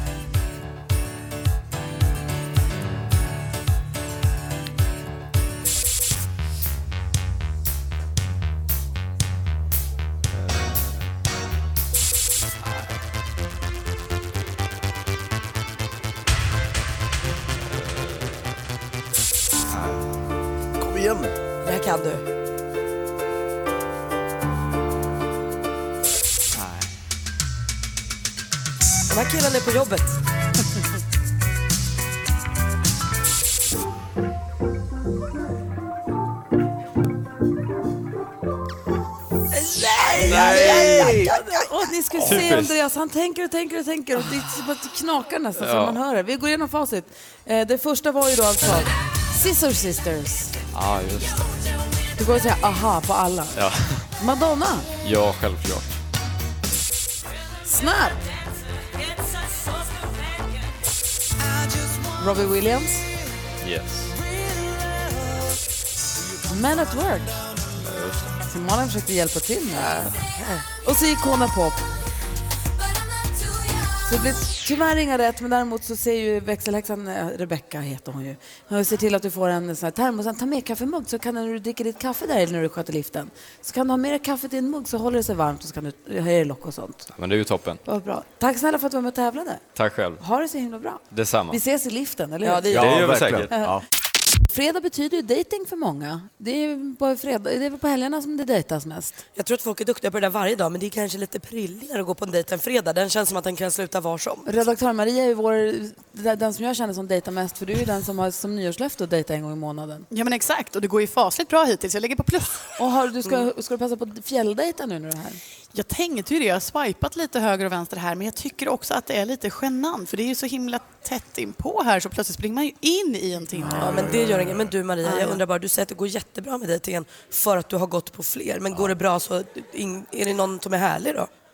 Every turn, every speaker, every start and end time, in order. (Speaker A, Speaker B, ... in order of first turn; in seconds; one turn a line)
Speaker A: 20.8-21.3
Speaker B: 21.6-22.2
Speaker B: 29.1-30.2
Speaker B: 39.5-41.3
Speaker C: 40.0-50.5
Speaker D: 40.3-41.2
Speaker A: 40.6-40.9
Speaker D: 42.2-42.8
Speaker D: 45.6-46.0
Speaker D: 50.7-51.6
Speaker C: 52.2-53.6
Speaker D: 53.5-54.1
Speaker C: 54.2-54.9
Speaker D: 55.0-56.0
Speaker C: 57.6-58.2
Speaker C: 62.1-63.1
Speaker D: 63.6-64.1
Speaker C: 66.5-67.4
Speaker D: 67.8-68.3
Speaker C: 68.5-70.1
Speaker B: 70.1-70.6
Speaker C: 70.8-71.8
Speaker C: 74.0-87.1
Speaker D: 87.1-87.8
Speaker C: 87.8-89.6
Speaker D: 89.8-90.2
Speaker C: 90.2-92.8
Speaker D: 91.1-91.6
Speaker B: 92.4-92.9
Speaker D: 92.7-93.5
Speaker A: 92.7-93.8
Speaker C: 94.5-99.2
Speaker B: 99.4-104.5
Speaker C: 104.5-110.1
Speaker E: 110.1-112.6
Speaker C: 112.8-115.4
Speaker E: 115.7-124.0
Speaker A: 123.6-124.7
Speaker B: 123.8-131.3
Speaker C: 125.1-125.3